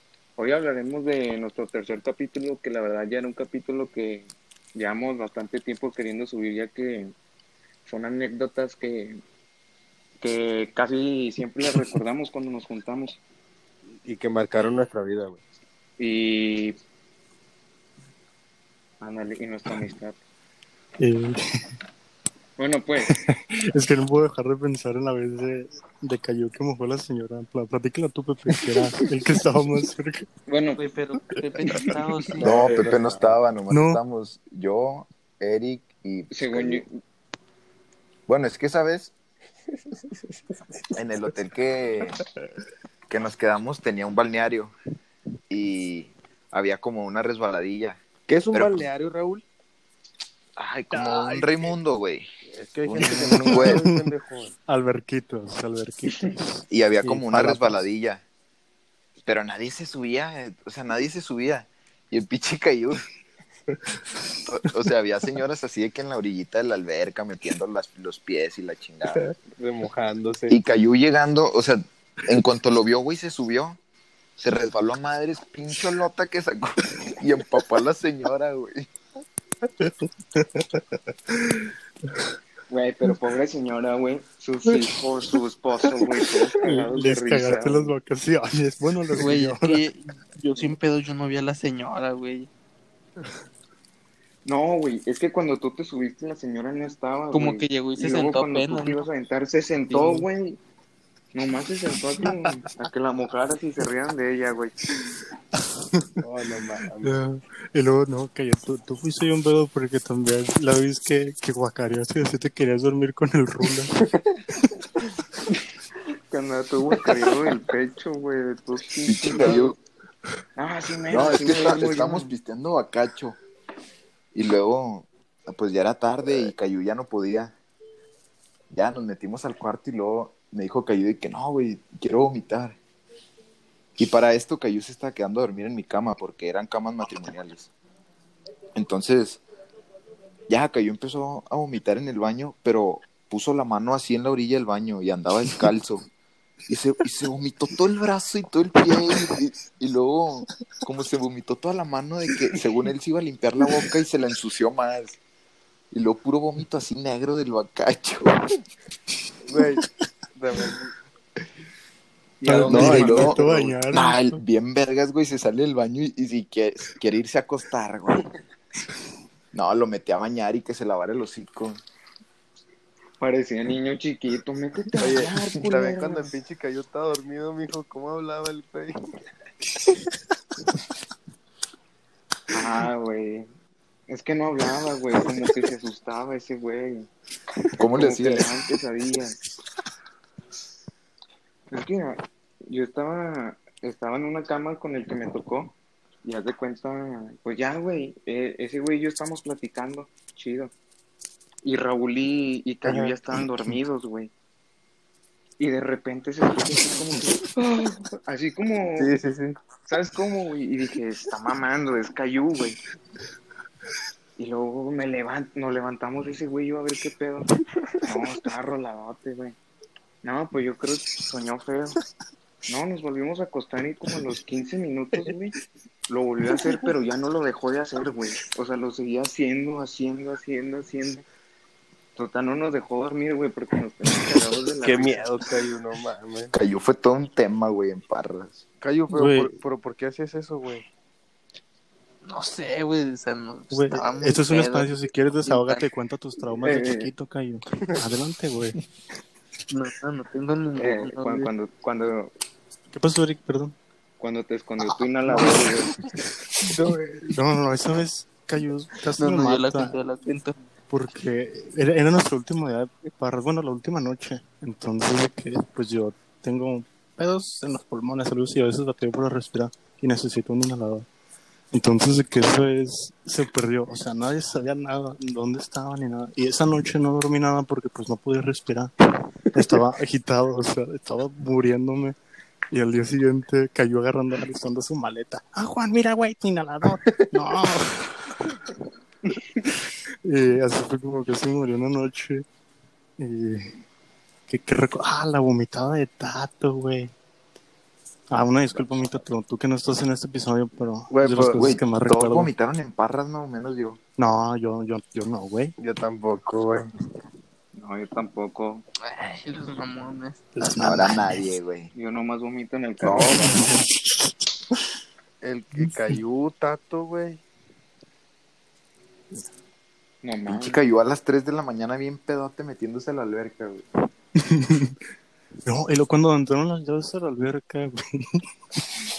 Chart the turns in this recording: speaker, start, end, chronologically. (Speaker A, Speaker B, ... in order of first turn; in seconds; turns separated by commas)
Speaker A: 0.4-7.2, Speaker A: 7.8-9.2, Speaker A: 10.2-13.2, Speaker B: 14.1-15.4, Speaker A: 16.0-16.8, Speaker A: 19.0-20.2, Speaker C: 21.0-21.4, Speaker A: 22.6-23.2, Speaker C: 23.1-30.3, Speaker A: 30.5-30.8, Speaker D: 30.8-32.6, Speaker A: 32.4-33.0, Speaker E: 32.4-36.9, Speaker B: 32.6-33.4, Speaker C: 33.7-34.0, Speaker A: 36.3-36.9, Speaker E: 38.3-39.1, Speaker B: 39.7-40.8, Speaker E: 41.0-42.2, Speaker E: 43.1-44.7, Speaker E: 45.5-48.9, Speaker B: 48.3-49.5, Speaker E: 50.6-52.3, Speaker C: 50.9-51.7, Speaker B: 52.5-54.5, Speaker E: 52.8-53.9, Speaker C: 53.0-54.1, Speaker C: 54.7-57.9, Speaker E: 56.7-58.2, Speaker E: 59.2-63.0, Speaker E: 64.3-69.3, Speaker B: 69.2-70.6, Speaker E: 70.5-73.8, Speaker E: 74.4-78.9, Speaker C: 79.8-82.3, Speaker A: 82.7-88.0, Speaker C: 86.7-89.9, Speaker D: 89.2-92.5, Speaker A: 94.5-100.6, Speaker D: 97.3-99.1, Speaker D: 99.9-100.3, Speaker A: 101.3-104.7, Speaker C: 102.2-102.5, Speaker C: 105.5-106.2, Speaker B: 106.2-107.2, Speaker C: 107.0-114.0, Speaker A: 116.3-119.8, Speaker E: 119.1-119.8, Speaker A: 120.6-122.3, Speaker E: 121.1-123.4, Speaker E: 124.3-127.5, Speaker E: 128.7-132.8, Speaker E: 134.0-137.7, Speaker E: 138.8-139.4, Speaker E: 140.5-146.0, Speaker E: 146.7-155.2, Speaker E: 155.9-158.4, Speaker B: 159.4-160.9, Speaker C: 162.4-164.4, Speaker D: 162.5-163.4, Speaker E: 162.6-168.2, Speaker B: 163.4-163.8, Speaker E: 169.5-171.8, Speaker A: 173.2-176.3, Speaker B: 175.0-179.0, Speaker A: 182.5-183.5, Speaker A: 184.1-187.1, Speaker E: 187.8-188.5, Speaker A: 187.8-189.4, Speaker A: 191.7-200.7, Speaker A: 201.6-204.3, Speaker B: 202.8-203.1, Speaker A: 205.6-209.1, Speaker B: 209.0-209.6, Speaker A: 209.9-212.8, Speaker A: 214.4-217.5, Speaker A: 218.1-219.6, Speaker A: 220.2-222.0, Speaker A: 222.7-225.6, Speaker A: 226.1-231.2, Speaker A: 232.2-235.3, Speaker B: 234.8-236.5, Speaker E: 236.5-238.7, Speaker B: 238.8-240.8, Speaker C: 239.1-239.5, Speaker D: 242.2-244.9, Speaker C: 243.7-248.8, Speaker D: 245.4-245.9, Speaker A: 246.6-247.1, Speaker D: 249.7-251.5, Speaker A: 250.8-252.3, Speaker C: 252.9-253.8, Speaker A: 254.2-255.9, Speaker C: 254.8-255.7, Speaker C: 256.6-260.0, Speaker D: 259.2-260.6, Speaker C: 260.9-271.1, Speaker C: 271.7-278.9, Speaker C: 279.5-282.2, Speaker C: 282.7-288.2, Speaker C: 290.2-292.4, Speaker C: 293.2-293.8, Speaker C: 294.5-297.1, Speaker C: 298.3-302.5, Speaker B: 301.1-301.6, Speaker E: 301.6-304.0, Speaker C: 304.2-305.7, Speaker B: 305.8-306.9, Speaker A: 307.7-308.8, Speaker D: 309.0-310.4, Speaker C: 310.6-311.5, Speaker E: 310.8-311.9, Speaker A: 311.9-313.7, Speaker C: 313.0-314.8, Speaker B: 315.4-317.4, Speaker C: 315.8-316.1, Speaker A: 320.2-320.9, Speaker E: 320.5-323.8, Speaker C: 324.4-325.0, Speaker C: 325.6-328.9